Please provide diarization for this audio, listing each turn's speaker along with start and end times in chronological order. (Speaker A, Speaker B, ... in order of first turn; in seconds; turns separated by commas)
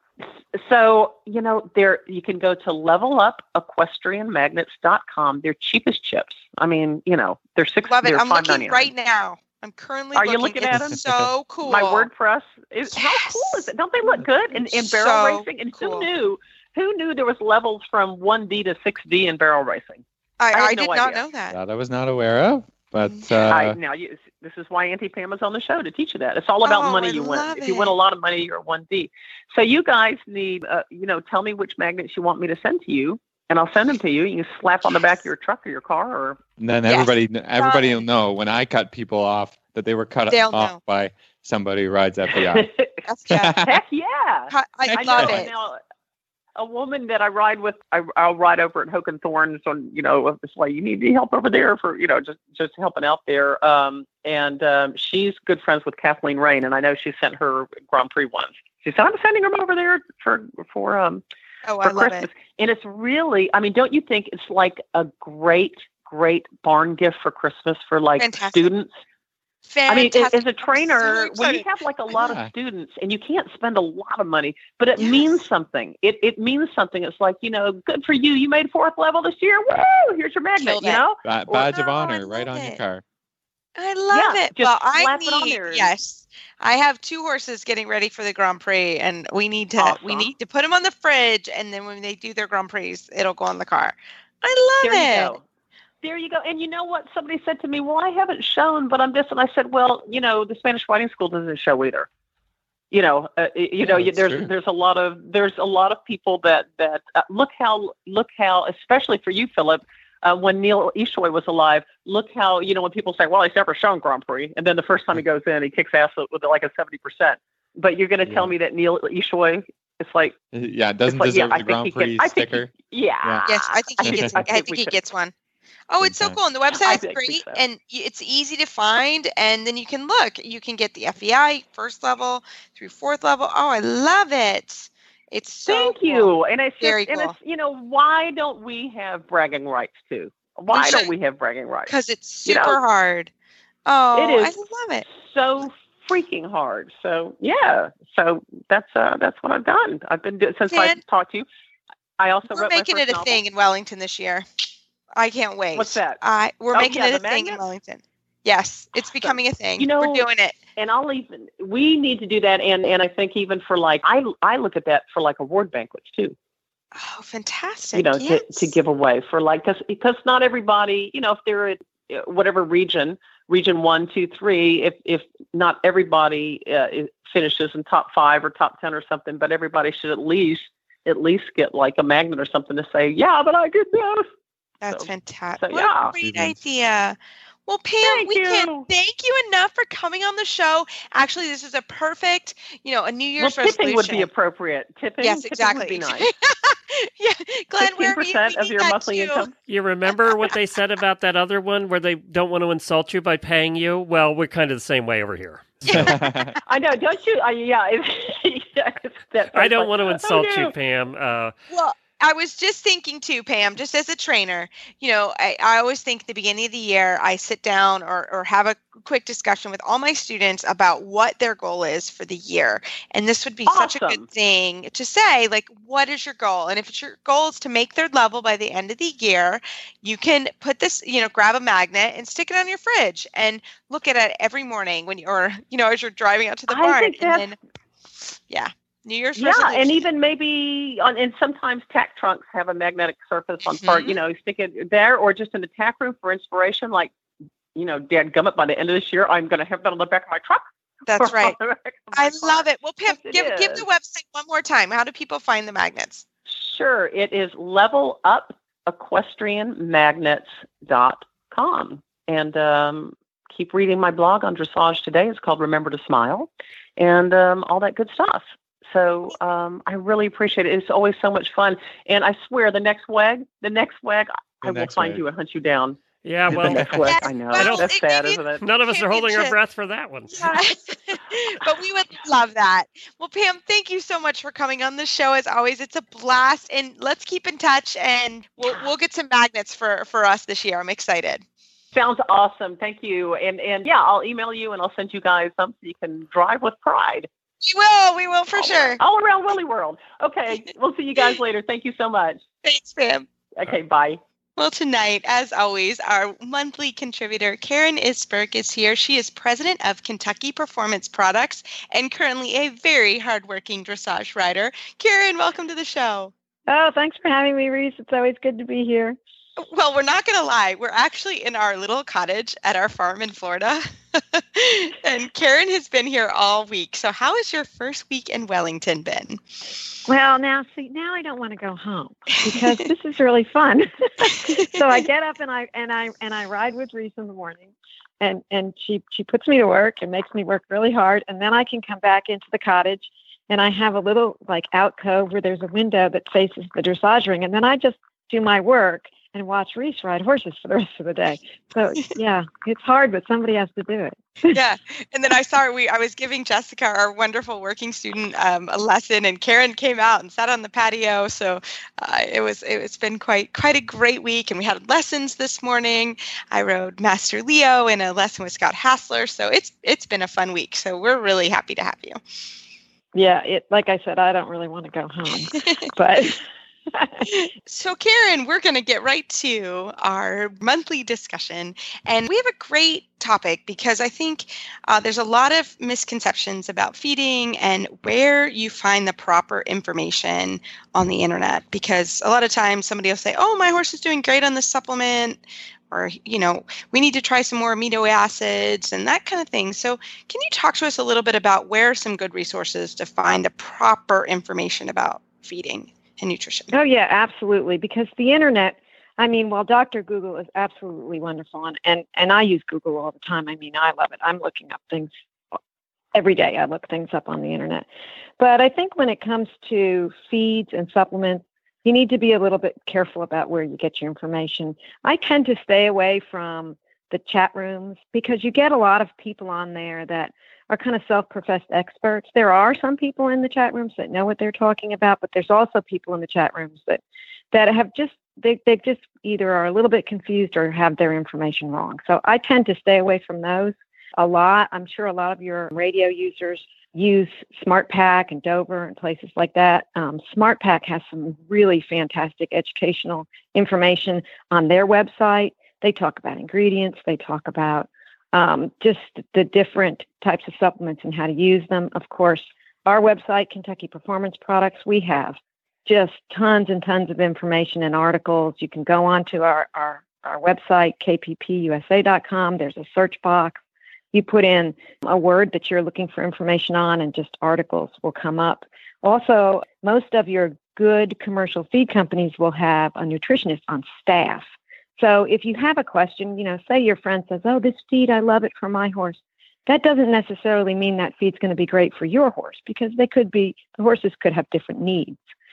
Speaker A: 0.5-8.9, Speaker B: 7.9-12.1, Speaker A: 10.1-11.0, Speaker C: 10.7-11.2, Speaker A: 11.6-21.2, Speaker B: 12.9-13.7, Speaker B: 14.5-16.1, Speaker B: 20.4-21.6, Speaker C: 21.5-23.8, Speaker B: 23.1-23.5, Speaker A: 23.5-36.4, Speaker B: 26.6-27.9, Speaker C: 36.6-42.7, Speaker B: 36.9-38.0, Speaker B: 40.3-40.8, Speaker A: 42.3-43.0, Speaker B: 43.1-43.6, Speaker C: 43.3-43.7, Speaker A: 43.6-45.8, Speaker B: 44.5-45.5, Speaker C: 44.9-45.4, Speaker A: 46.5-61.2, Speaker B: 61.6-62.3, Speaker A: 61.8-68.9, Speaker B: 68.2-68.7, Speaker B: 69.7-71.6, Speaker A: 69.9-81.7, Speaker C: 72.1-72.5, Speaker B: 75.0-75.3, Speaker B: 80.6-81.0, Speaker C: 81.2-83.0, Speaker B: 81.6-82.8, Speaker B: 83.8-95.3, Speaker A: 84.1-85.9, Speaker A: 89.8-90.3, Speaker A: 94.8-95.4, Speaker A: 96.0-102.1, Speaker A: 102.9-120.3, Speaker C: 103.8-104.5, Speaker C: 118.2-118.5, Speaker C: 120.5-122.7, Speaker A: 121.0-125.0, Speaker B: 123.5-125.3, Speaker C: 124.0-124.3, Speaker B: 125.9-137.3, Speaker C: 126.0-126.4, Speaker A: 126.7-127.6, Speaker A: 135.6-141.9, Speaker B: 140.7-141.1, Speaker B: 141.9-143.3, Speaker A: 142.4-142.8, Speaker B: 143.8-145.0, Speaker A: 144.1-144.5, Speaker A: 145.0-151.4, Speaker B: 150.7-151.0, Speaker A: 152.2-153.4, Speaker B: 152.5-154.4, Speaker B: 155.1-160.6, Speaker A: 155.7-156.2, Speaker A: 156.7-157.6, Speaker A: 159.1-160.2, Speaker A: 160.8-166.3, Speaker B: 166.9-168.7, Speaker A: 167.9-184.3, Speaker B: 184.8-187.2, Speaker A: 184.9-186.2, Speaker C: 186.2-186.6, Speaker B: 187.7-194.3, Speaker A: 188.0-188.9, Speaker A: 193.4-196.3, Speaker B: 195.2-199.4, Speaker A: 197.8-199.5, Speaker D: 199.7-206.2, Speaker B: 200.1-200.5, Speaker B: 205.9-206.4, Speaker C: 205.9-206.5, Speaker A: 206.7-210.7, Speaker D: 209.5-211.5, Speaker B: 211.7-237.6, Speaker A: 223.7-224.2, Speaker A: 236.7-237.5, Speaker B: 238.5-240.0, Speaker A: 239.3-247.1, Speaker B: 243.7-244.2, Speaker A: 247.7-250.6, Speaker B: 251.1-251.6, Speaker A: 251.2-253.8, Speaker B: 252.1-256.2, Speaker A: 256.5-278.6, Speaker C: 274.6-275.2, Speaker D: 276.2-277.9, Speaker C: 276.5-277.1, Speaker B: 277.1-279.5, Speaker D: 278.6-280.5, Speaker B: 280.3-291.4, Speaker A: 291.9-297.3, Speaker B: 297.6-299.0, Speaker A: 298.5-302.4, Speaker B: 302.6-303.3, Speaker A: 303.6-304.2, Speaker B: 304.6-316.3, Speaker E: 316.7-319.2, Speaker B: 319.6-329.4, Speaker E: 330.1-354.6, Speaker B: 332.4-332.7, Speaker B: 354.5-372.2, Speaker E: 373.1-376.4, Speaker E: 376.9-377.3, Speaker B: 377.3-406.7, Speaker E: 406.7-415.1, Speaker E: 416.1-417.8, Speaker E: 418.4-437.0, Speaker E: 437.5-473.6, Speaker E: 474.1-495.2